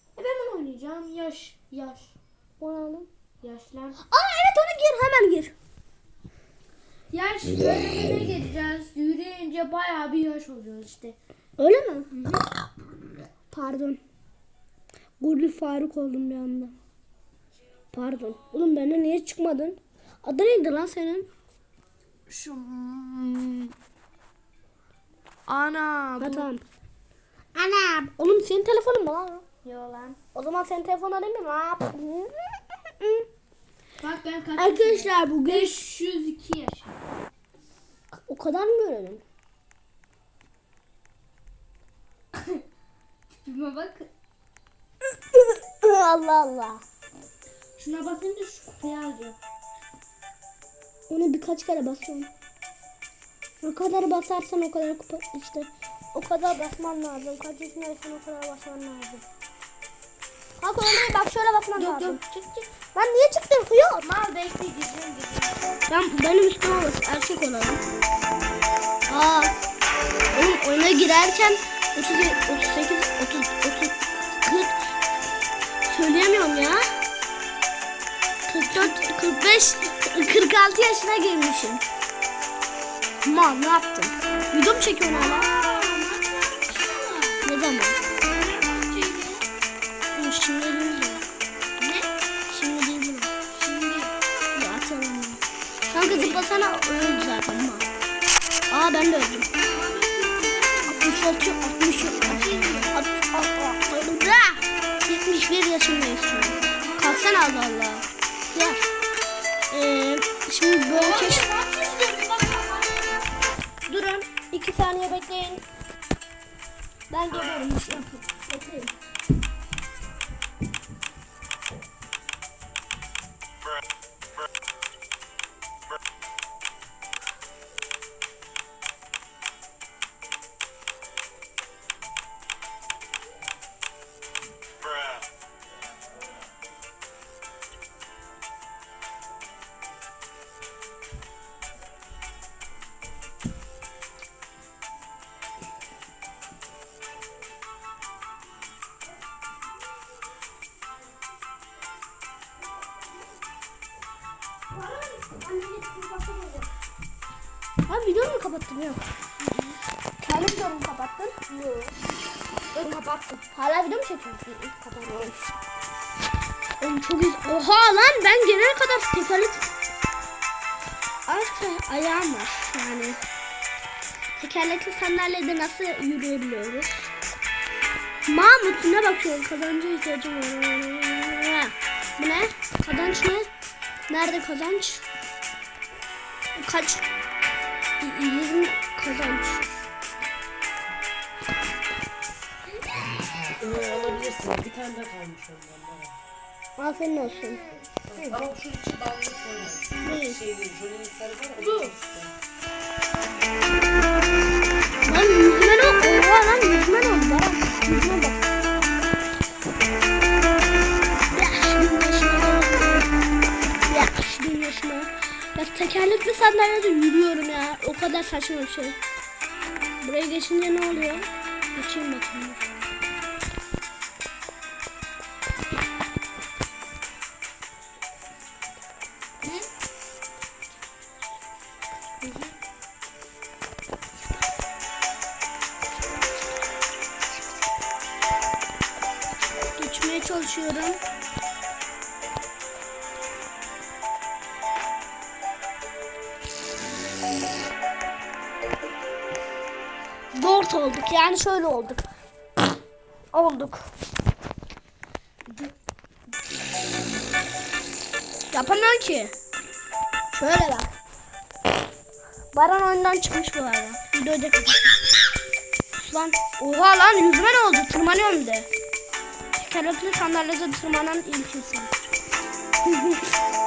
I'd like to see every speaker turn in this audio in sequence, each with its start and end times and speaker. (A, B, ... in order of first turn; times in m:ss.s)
0:00.2-0:02.2 A
0:02.6-0:03.1 B
0:03.4-0:04.0 A
0:04.0-0:05.5 B
0:07.1-0:11.2 A
0:11.6-0:12.1 B
0:12.1-0:12.5 A
0:13.5-0:14.0 B
0:15.2-0:16.7 B
0:17.9-0:21.3 B
0:22.3-0:23.7 A
0:25.5-0:26.5 A
0:26.2-0:26.6 B
0:27.5-0:29.4 B
0:29.6-0:30.2 A
0:30.3-0:33.2 B
0:34.0-0:36.9 A
0:34.6-0:35.8 B
0:38.1-0:39.2 B
0:42.3-0:42.6 A
0:43.3-0:44.1 A
0:45.3-0:46.8 B
0:47.8-0:49.4 A
0:51.1-0:52.3 B
0:53.6-0:59.2 B
1:00.6-1:02.2 B
1:01.8-1:02.7 A
1:02.9-1:04.1 B
1:04.0-1:05.6 A
1:05.9-1:07.8 B
1:09.1-1:09.5 B
1:10.3-1:14.8 B
1:15.9-1:16.8 B
1:18.5-1:21.8 B
1:18.6-1:19.1 A
1:23.2-1:25.5 B
1:25.1-1:27.4 A
1:27.4-1:28.0 B
1:28.2-1:29.5 A
1:30.1-1:31.2 B
1:31.8-1:32.1 A
1:32.5-1:33.3 B
1:33.5-1:34.1 A
1:34.5-1:37.9 B
1:35.9-1:36.5 A
1:38.7-1:39.5 B
1:39.6-1:41.1 A
1:40.8-1:48.8 B
1:42.2-1:43.0 A
1:46.4-1:47.5 A
1:49.7-1:51.5 B
1:50.9-1:53.2 A
1:53.9-1:55.6 B
1:57.1-1:58.9 B
2:34.7-2:36.6 B
2:37.9-2:39.1 B
2:39.4-2:39.8 A
2:40.2-2:41.4 B
2:41.5-2:42.0 A
2:42.7-2:43.4 A
2:43.5-2:45.5 B
2:46.8-2:49.7 B
2:51.2-2:53.2 B
2:54.4-2:57.1 B
2:58.2-3:03.5 B
3:04.1-3:05.0 B
3:06.6-3:07.0 B
3:08.0-3:09.7 B
3:13.4-3:16.2 C
3:16.8-3:17.7 B
3:18.1-3:22.3 C
3:20.0-3:20.4 B
3:21.6-3:21.9 A
3:25.0-3:28.4 B
3:31.3-3:33.1 B
3:33.9-3:39.0 B
3:40.0-3:42.7 B
3:52.2-3:52.5 A
3:59.8-4:01.0 B
4:10.3-4:12.0 B
4:13.3-4:13.8 B
4:15.5-4:15.7 A
4:18.5-4:19.3 B
4:20.3-4:20.9 B
4:22.5-4:25.0 B
4:25.9-4:28.7 B
4:29.5-4:32.0 B
4:32.8-4:33.3 B